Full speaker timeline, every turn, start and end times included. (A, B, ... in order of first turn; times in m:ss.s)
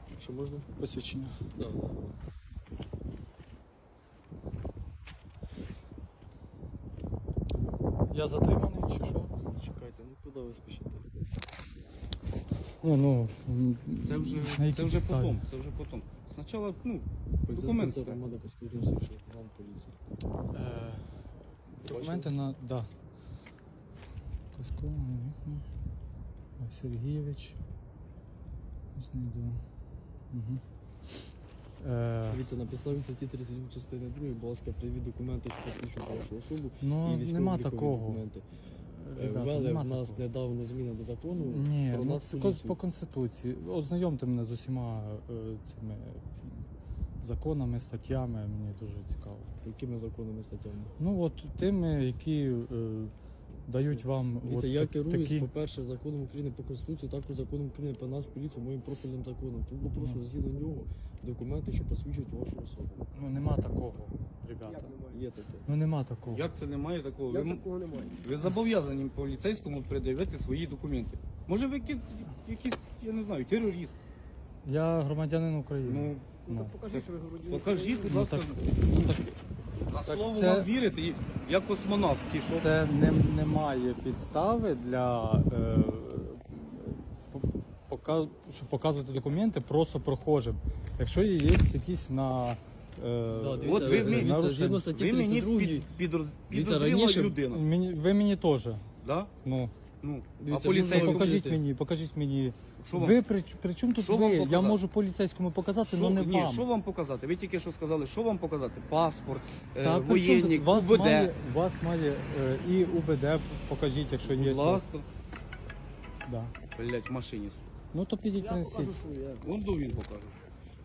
0:00.2-0:00.7 A
0:00.8-0:01.3 B
0:01.5-0:02.1 A
0:08.1-0:09.3 B
0:09.4-0:11.1 A
0:12.8-0:15.4 B
0:14.0-0:18.2 C
0:17.4-0:20.0 A
0:20.5-0:21.0 B
0:21.8-0:22.3 A
0:21.8-0:22.9 B
0:24.5-0:25.6 B
0:26.6-0:27.6 B
0:28.9-0:29.6 B
0:30.3-0:30.6 B
0:31.8-0:32.4 B
0:32.3-0:38.4 A
0:36.8-0:40.2 B
0:39.2-0:42.8 A
0:41.4-0:46.7 B
0:47.2-0:49.5 B
0:49.6-0:50.9 A
0:51.0-0:53.1 B
0:53.6-0:55.5 B
0:53.8-1:03.1 A
1:03.1-1:05.0 B
1:04.6-1:05.2 D
1:05.1-1:05.7 A
1:05.7-1:06.5 B
1:06.3-1:14.0 C
1:07.3-1:08.2 D
1:14.6-1:16.8 B
1:15.8-1:16.4 C
1:16.4-1:18.1 D
1:16.9-1:18.8 C
1:18.0-1:19.4 B
1:19.9-1:22.7 C
1:20.0-1:20.7 B
1:22.5-1:34.8 B
1:33.3-1:35.9 A
1:33.6-1:37.6 C
1:36.5-1:37.4 A
1:37.5-1:38.8 B
1:39.0-1:39.3 C
1:39.4-1:39.7 B
1:40.0-1:41.3 C
1:40.4-1:41.6 A
1:40.8-1:46.7 B
1:42.8-1:43.2 C
1:44.0-1:44.8 C
1:45.8-1:51.3 C
1:49.8-1:54.8 B
1:54.2-1:55.0 C
1:56.2-1:56.5 B
1:56.7-1:57.6 C
1:57.9-1:59.0 B
1:58.4-1:59.4 D
1:59.4-2:00.3 C